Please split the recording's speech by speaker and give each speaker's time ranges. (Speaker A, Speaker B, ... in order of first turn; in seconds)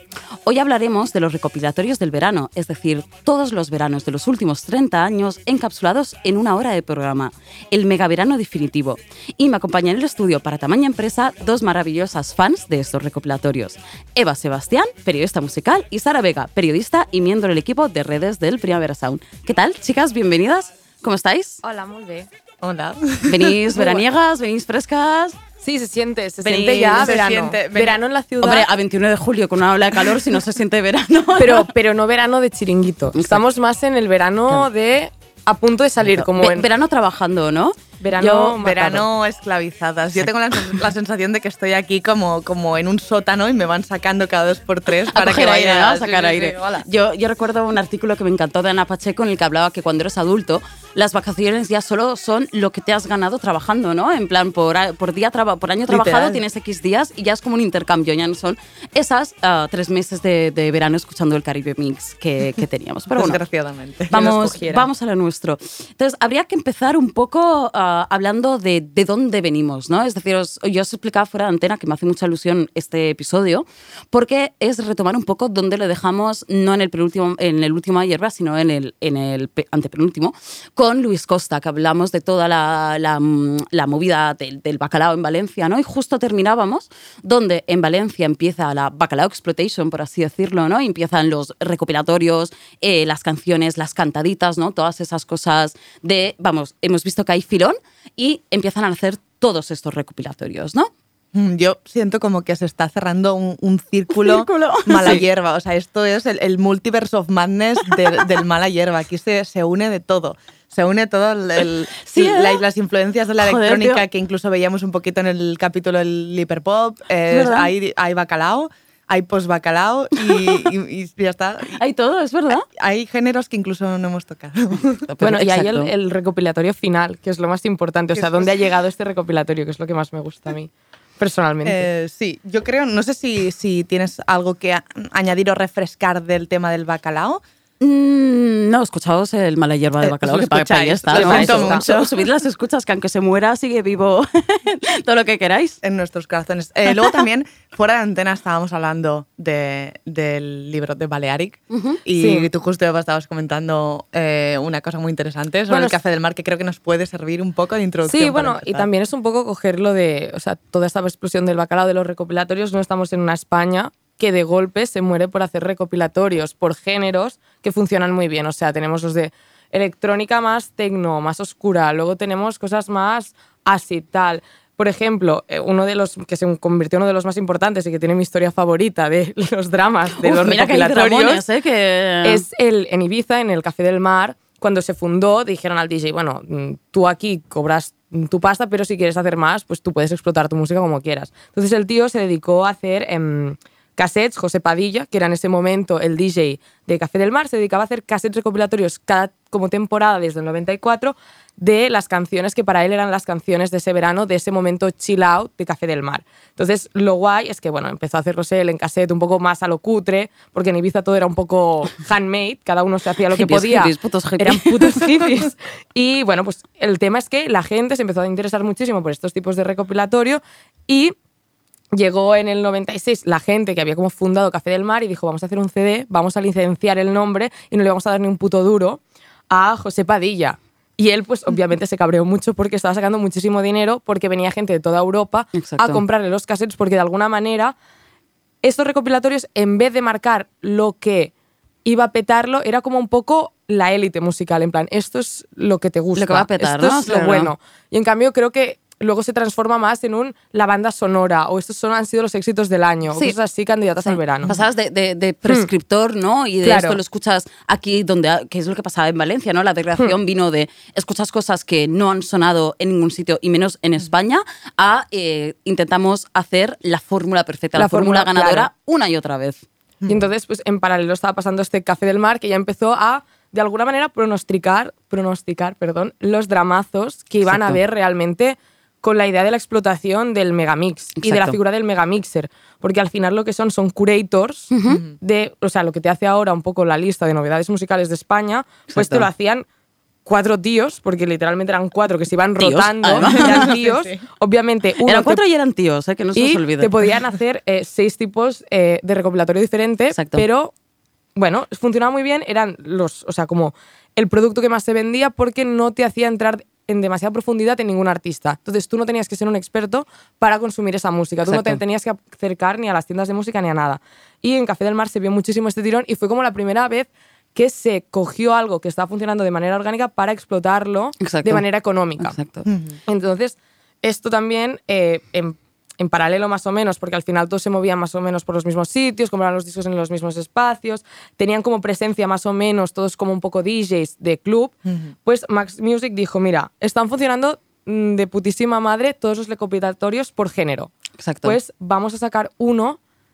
Speaker A: 0.4-21.6, 23.3-25.4, 26.8-27.1, 28.4-31.7, 33.1-33.4, 36.0-38.3, 45.1-63.4, 64.1-100.9, 104.1-105.2, 107.9-108.2, 112.0-112.6, 113.4-114.0, 117.3-117.7, 120.2-120.5, 121.7-122.7, 125.1-125.9, 137.8-145.8, 151.7-152.0, 180.2-182.4, 213.3-215.2, 235.5-236.0, 246.2-247.5, 253.1-253.3, 254.1-269.6, 277.4-277.8, 281.2-281.6, 284.7-285.0, 288.9-289.3, 292.6-293.7, 295.0-297.0, 300.1-300.4, 311.5-311.8, 321.2-321.6, 322.2-322.6, 341.2-341.6
Speaker B: 21.6-22.3, 25.6-28.6, 31.4-36.7, 38.0-39.0, 64.1-64.9, 125.2-131.8, 141.1-141.8, 152.2-152.5, 155.7-155.9, 158.1-181.4, 182.2-221.1, 221.9-237.7, 238.6-241.3, 241.8-254.5, 256.6-257.0, 267.8-268.7, 270.1-289.6, 290.2-295.4, 296.4-300.7, 301.4-322.4, 323.1-340.9, 341.4-343.0
Speaker C: 22.6-23.6, 26.4-28.0, 38.2-46.8, 55.9-56.4, 63.1-64.4, 101.3-121.8, 122.7-125.0, 128.1-128.6, 131.6-137.4, 140.0-142.2, 145.8-158.9, 284.9-285.1, 293.2-294.2, 322.6-322.9, 334.9-335.1